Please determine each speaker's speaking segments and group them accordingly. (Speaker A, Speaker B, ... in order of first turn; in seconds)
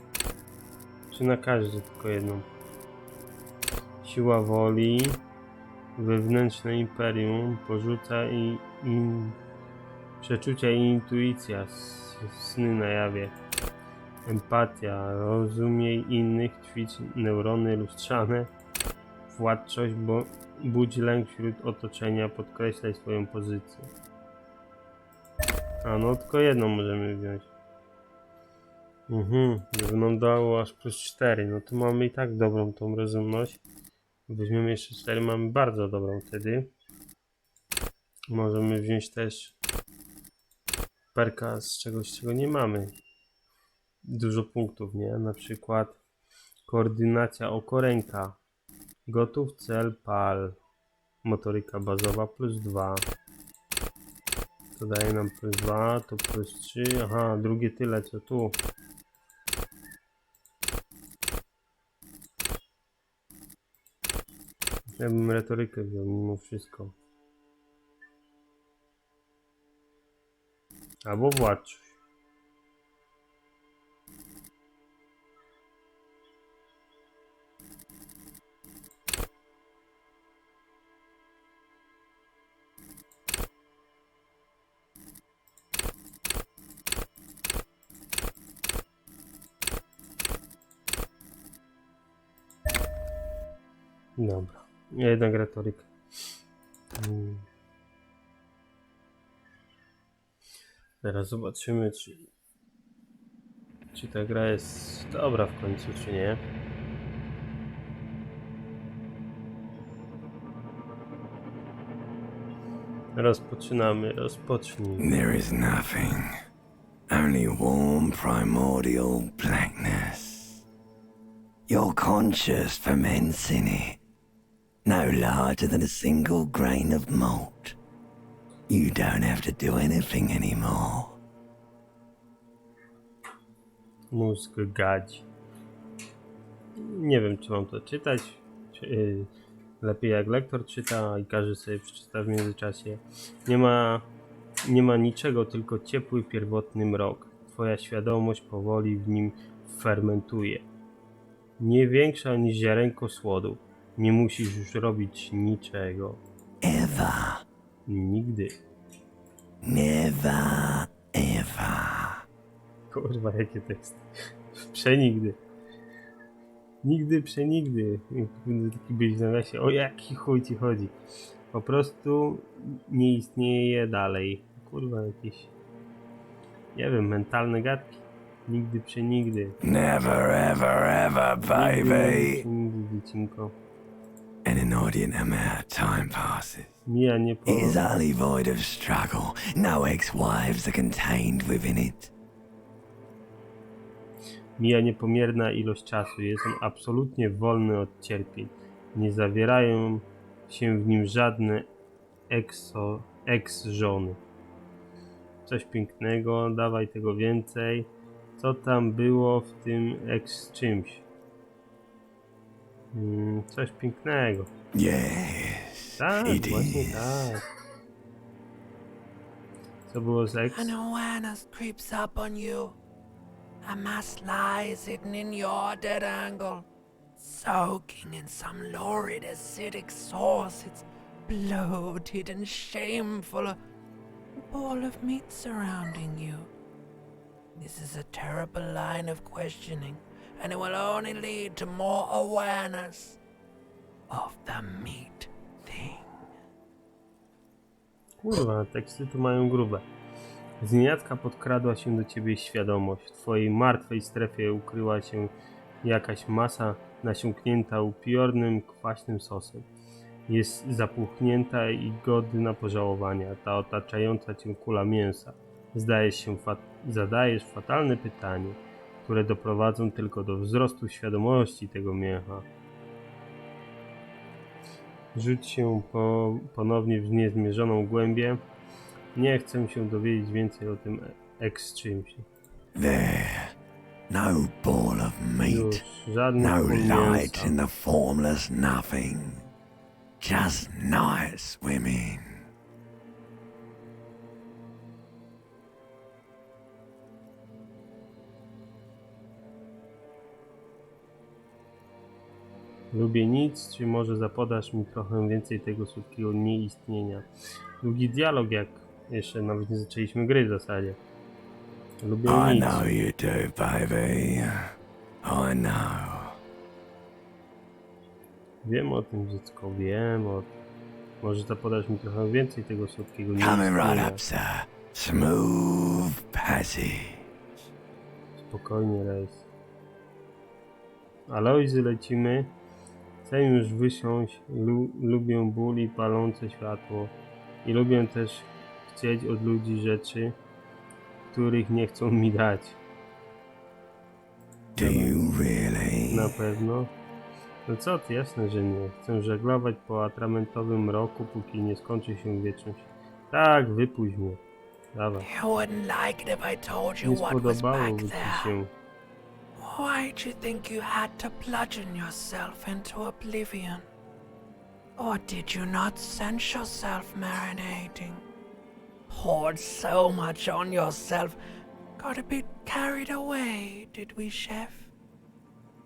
Speaker A: 1.1-2.5, 4.0-5.2, 6.0-9.4, 10.2-13.3, 14.2-18.5, 19.3-23.9, 25.8-27.5, 29.1-33.6, 34.3-36.7, 38.3-39.5, 41.1-42.9, 44.1-46.0, 46.6-48.4, 49.1-50.6, 51.2-53.0, 54.8-58.6, 64.9-67.0, 71.0-72.0, 94.2-95.9, 97.0-97.5, 101.0-102.3, 103.9-106.4, 113.1-115.1, 134.1-135.2, 136.8-139.3, 139.8-144.1, 144.7-150.7, 151.6-156.2, 157.9-158.5, 162.9-165.4, 166.8-170.9, 171.5-175.5, 176.7-179.6, 181.4-183.6, 186.8-187.8, 194.6-201.7, 202.3-204.2, 205.4-211.1, 212.9-214.5, 216.0-217.4, 219.9-220.7, 248.2-249.9, 250.6-255.3, 255.8-259.6, 260.3-272.4, 275.1-278.4, 279.1-282.2, 285.4-287.6, 302.9-307.2, 307.8-311.0, 312.0-312.9, 318.6-320.5, 321.2-324.2, 328.4-329.4, 331.3-332.5, 333.2-340.4, 341.3-342.8, 344.8-345.3, 346.1-346.9, 347.6-354.4, 354.9-355.3, 357.0-358.7
Speaker B: 115.0-116.3, 117.1-120.6, 121.7-124.0, 124.8-127.8, 128.7-131.2, 156.6-157.4, 159.6-162.2, 179.6-182.4, 184.4-186.8, 187.4-192.1, 214.7-217.3, 282.7-283.5, 284.1-285.8, 286.4-289.5, 290.2-292.4, 312.2-314.7, 315.2-316.4, 323.4-327.2, 344.8-346.3
Speaker C: 220.5-222.8, 223.6-226.7, 227.2-233.6, 234.5-236.5, 237.6-243.2, 244.1-246.1, 355.2-358.5, 359.6-363.9, 365.0-368.2, 369.1-371.4, 372.0-374.9